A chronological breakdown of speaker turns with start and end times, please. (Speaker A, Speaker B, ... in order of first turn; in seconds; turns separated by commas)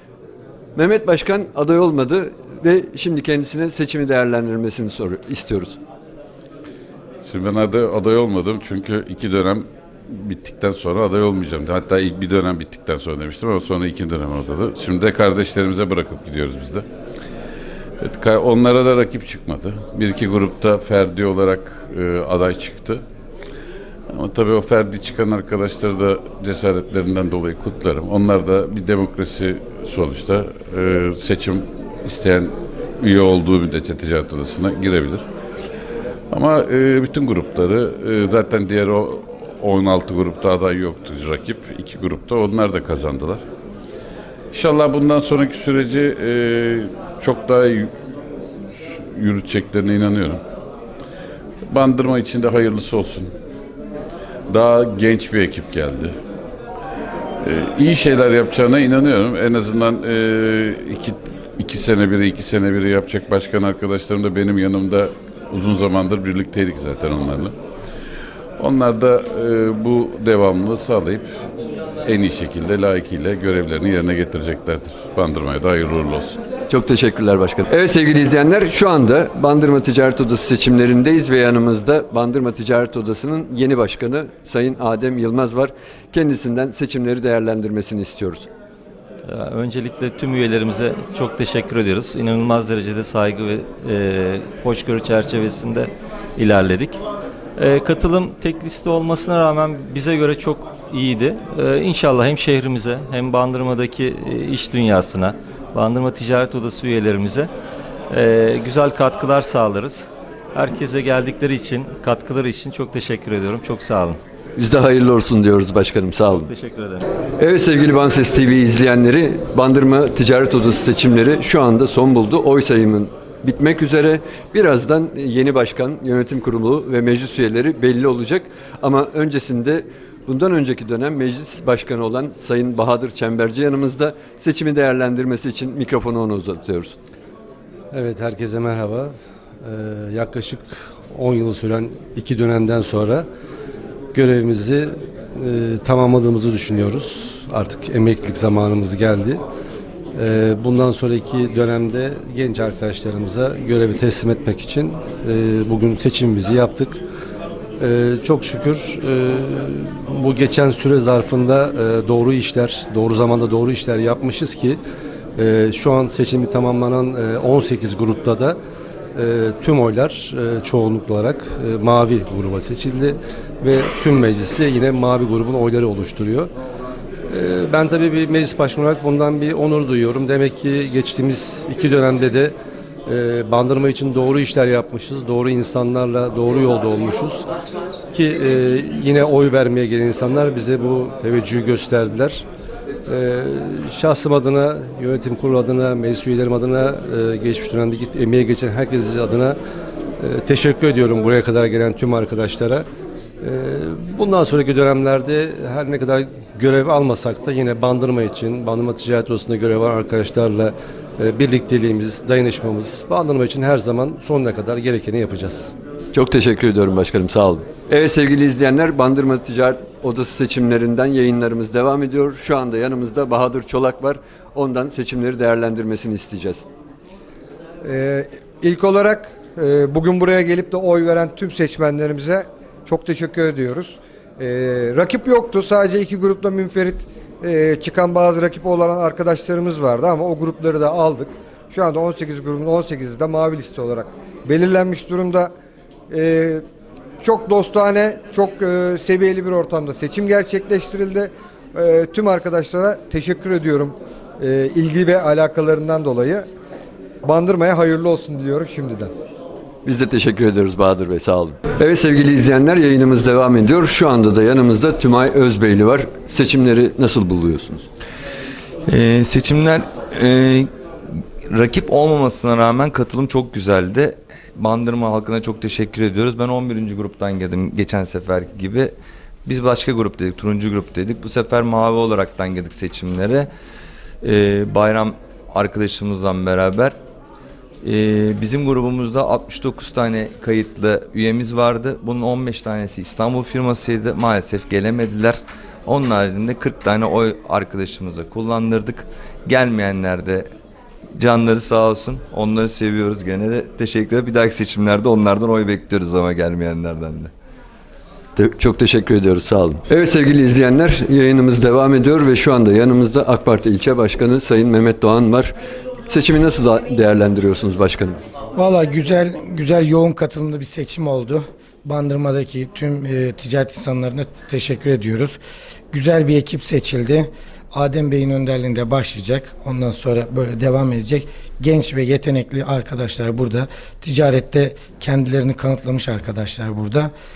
Speaker A: 0.7-5.8, Speaker B: 7.2-16.8, Speaker B: 18.0-23.0, Speaker B: 24.1-35.2, Speaker B: 36.3-43.4, Speaker B: 44.5-47.9, Speaker B: 48.9-50.4, Speaker B: 51.7-53.3, Speaker B: 54.5-56.1, Speaker B: 57.4-67.5, Speaker B: 68.6-71.3, Speaker B: 72.0-76.4, Speaker A: 76.7-88.5, Speaker C: 89.2-97.0, Speaker C: 97.6-107.5, Speaker C: 108.1-114.2, Speaker A: 114.6-116.5, Speaker C: 116.3-117.0, Speaker A: 117.4-136.9, Speaker D: 137.9-139.1, Speaker D: 139.6-143.2, Speaker D: 144.1-149.4, Speaker D: 150.2-157.0, Speaker D: 157.8-164.8, Speaker D: 165.3-168.6, Speaker D: 169.1-176.5, Speaker D: 177.3-182.5, Speaker D: 183.1-187.4, Speaker D: 188.1-192.4, Speaker D: 193.1-199.6, Speaker D: 200.2-202.8, Speaker D: 203.4-215.7, Speaker A: 216.1-226.7, Speaker E: 227.8-245.5, Speaker E: 246.1-246.6, Speaker E: 247.2-256.4, Speaker E: 257.2-259.1, Speaker A: 259.8-267.9, Speaker F: 268.9-270.7, Speaker F: 271.5-278.9, Speaker F: 279.4-283.5, Speaker F: 284.2-286.9, Speaker F: 287.8-300.4, Speaker F: 301.2-307.3, Speaker A: 308.4-315.5, Speaker A: 316.1-318.2, Speaker G: 318.5-325.4, Speaker G: 325.9-337.1